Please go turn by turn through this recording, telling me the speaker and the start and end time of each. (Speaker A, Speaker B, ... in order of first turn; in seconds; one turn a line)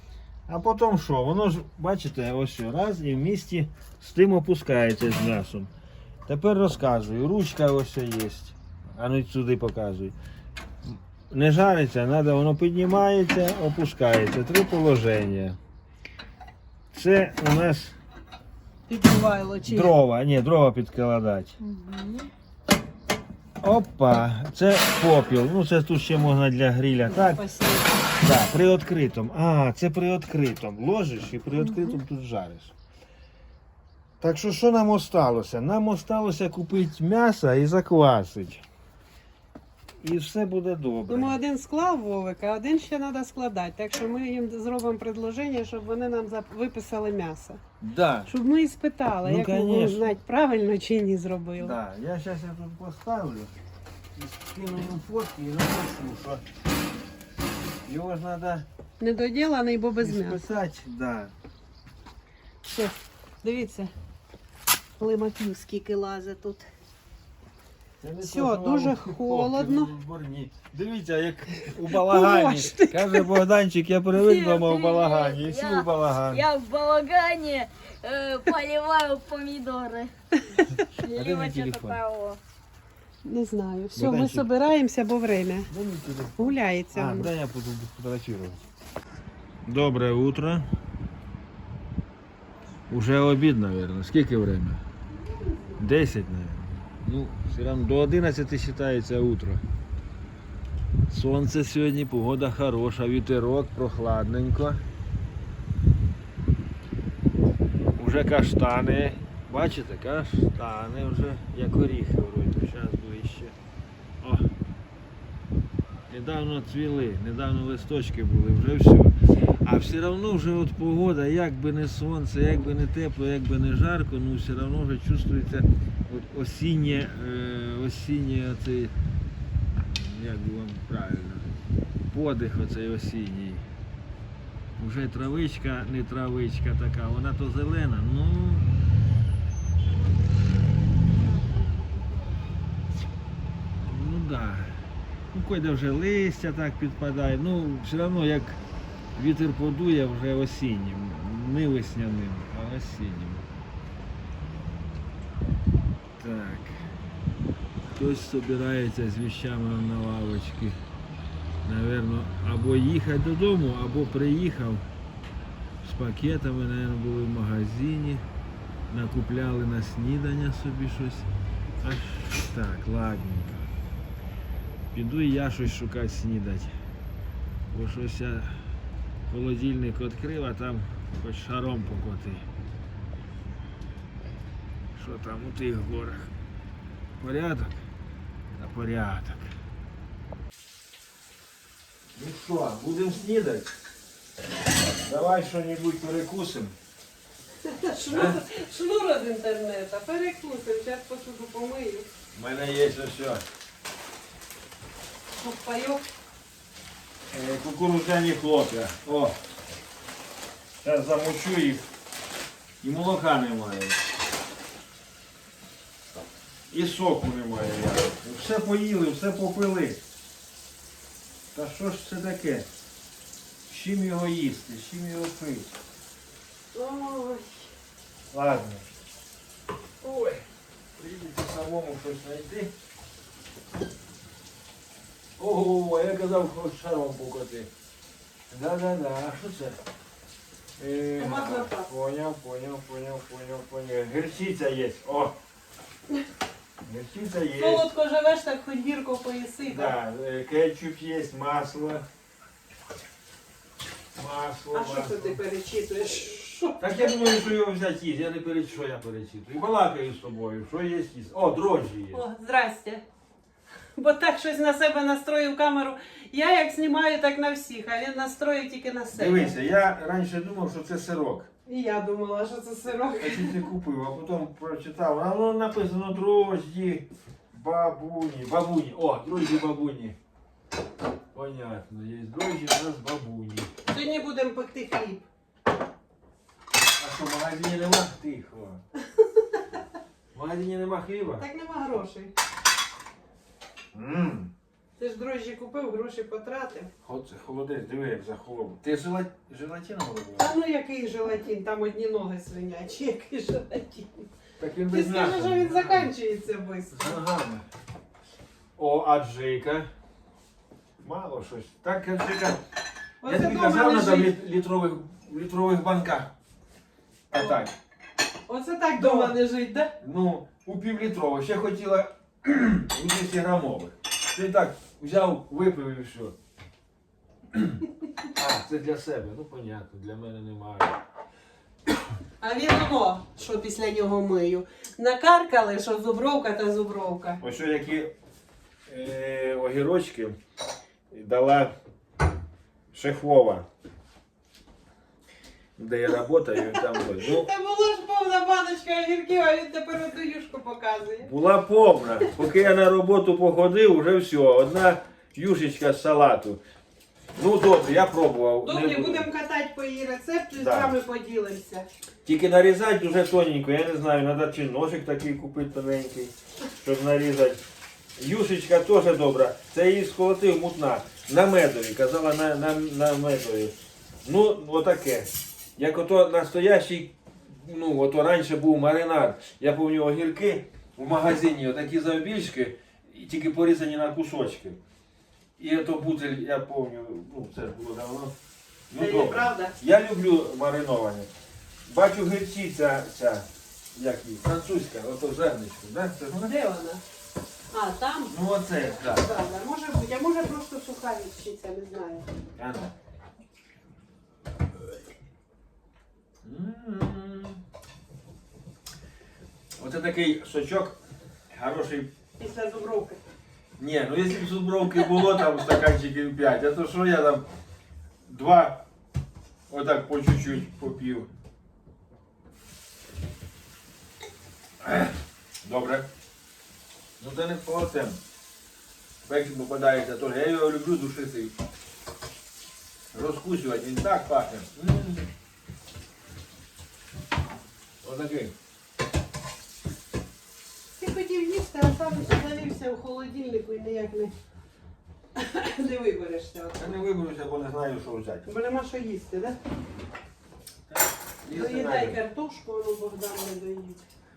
Speaker A: 0.5-5.7
Speaker A: 6.3-10.2
Speaker A: 11.3-15.6
Speaker A: 16.9-18.0
Speaker B: 18.9-19.9
Speaker A: 19.6-21.6
Speaker B: 21.6-22.3
Speaker A: 23.6-27.4
Speaker B: 27.1-28.1
Speaker A: 28.2-32.7
Speaker B: 31.6-32.0
Speaker A: 34.2-38.6
Speaker A: 40.0-41.4
Speaker B: 41.1-47.6
Speaker A: 47.8-48.3
Speaker B: 48.3-51.8
Speaker A: 49.2-50.2
Speaker A: 51.6-53.5
Speaker A: 54.1-56.4
Speaker A: 57.9-58.7
Speaker B: 59.0-60.4
Speaker A: 60.0-61.3
Speaker B: 62.6-63.9
Speaker B: 65.0-66.7
Speaker A: 68.0-76.4
Speaker B: 68.2-69.9
Speaker B: 71.9-73.3
Speaker C: 74.2-80.1
Speaker B: 80.4-80.8
Speaker C: 80.8-82.4
Speaker A: 81.0-82.0
Speaker B: 83.2-85.7
Speaker A: 84.0-84.5
Speaker A: 85.7-88.6
Speaker B: 86.4-87.3
Speaker A: 89.6-90.7
Speaker A: 92.9-94.8
Speaker B: 95.1-95.9
Speaker A: 95.8-99.6
Speaker A: 101.1-104.8
Speaker A: 108.0-113.6
Speaker A: 114.2-114.5
Speaker A: 116.1-128.9
Speaker A: 129.7-133.7
Speaker A: 134.8-138.7
Speaker A: 143.8-144.8
Speaker A: 145.3-148.6
Speaker A: 149.2-153.5
Speaker A: 156.2-156.8
Speaker A: 157.9-160.8
Speaker A: 161.6-164.9
Speaker A: 165.8-168.3
Speaker A: 168.9-171.3
Speaker A: 171.8-173.7
Speaker A: 174.9-176.8
Speaker A: 177.7-178.6
Speaker A: 179.3-182.5
Speaker A: 184.9-186.3
Speaker A: 187.2-187.9
Speaker A: 188.5-189.6
Speaker A: 192.2-193.7
Speaker A: 195.0-196.8
Speaker B: 197.7-202.1
Speaker A: 198.1-198.4
Speaker A: 202.3-203.4
Speaker B: 205.4-206.1
Speaker A: 207.3-209.4
Speaker A: 210.8-211.9
Speaker A: 212.8-214.0
Speaker A: 216.7-220.0
Speaker A: 221.5-222.7
Speaker A: 223.7-225.7
Speaker B: 226.7-227.7
Speaker A: 228.3-228.9
Speaker A: 230.0-232.7
Speaker A: 235.4-237.7
Speaker A: 238.5-239.8
Speaker A: 240.8-245.4
Speaker B: 241.2-241.9
Speaker A: 246.8-247.9
Speaker B: 247.6-249.9
Speaker A: 249.7-252.1
Speaker A: 254.2-255.4
Speaker B: 254.7-257.4
Speaker A: 256.8-262.2
Speaker B: 262.1-263.0
Speaker B: 264.0-269.6
Speaker A: 269.1-271.5
Speaker B: 271.7-273.6
Speaker A: 273.2-280.2
Speaker A: 281.3-283.7
Speaker B: 283.9-285.3
Speaker A: 287.0-288.8
Speaker A: 290.3-291.4
Speaker B: 291.4-292.3
Speaker A: 293.9-294.5
Speaker B: 295.0-296.9
Speaker A: 297.0-300.5
Speaker B: 300.4-304.3
Speaker A: 304.6-306.1
Speaker B: 304.9-307.2
Speaker A: 306.9-307.7
Speaker A: 308.8-309.9
Speaker A: 311.0-312.6
Speaker B: 313.2-314.4
Speaker A: 313.2-316.3
Speaker A: 317.3-317.7
Speaker B: 317.4-317.6
Speaker B: 318.5-319.9
Speaker A: 319.0-319.4
Speaker A: 320.0-326.4
Speaker A: 327.5-327.8
Speaker A: 328.3-331.0
Speaker B: 332.4-337.4
Speaker A: 337.4-338.1
Speaker A: 338.9-340.4
Speaker A: 341.1-341.7
Speaker A: 342.9-343.7
Speaker A: 345.8-347.5
Speaker B: 346.7-351.3
Speaker A: 351.2-356.6
Speaker A: 357.4-359.3
Speaker B: 358.6-361.9
Speaker A: 360.6-360.9
Speaker A: 362.2-367.6
Speaker A: 368.2-384.8
Speaker A: 385.6-388.4
Speaker A: 388.9-391.3
Speaker B: 389.0-389.8
Speaker A: 391.9-396.5
Speaker B: 396.4-397.0
Speaker B: 397.7-398.4
Speaker A: 398.3-399.3
Speaker B: 399.0-402.3
Speaker A: 402.6-402.9
Speaker A: 406.4-407.6
Speaker A: 409.8-411.0
Speaker A: 411.5-412.1
Speaker B: 412.4-413.2
Speaker A: 413.8-417.5
Speaker A: 418.3-418.9
Speaker A: 419.7-421.3
Speaker A: 424.8-426.1
Speaker A: 427.2-428.2
Speaker A: 429.2-431.6
Speaker A: 433.1-435.3
Speaker A: 438.0-438.5
Speaker B: 441.0-444.3
Speaker B: 445.4-447.0
Speaker A: 446.8-448.5
Speaker B: 448.4-449.6
Speaker A: 450.9-452.2
Speaker B: 451.5-454.0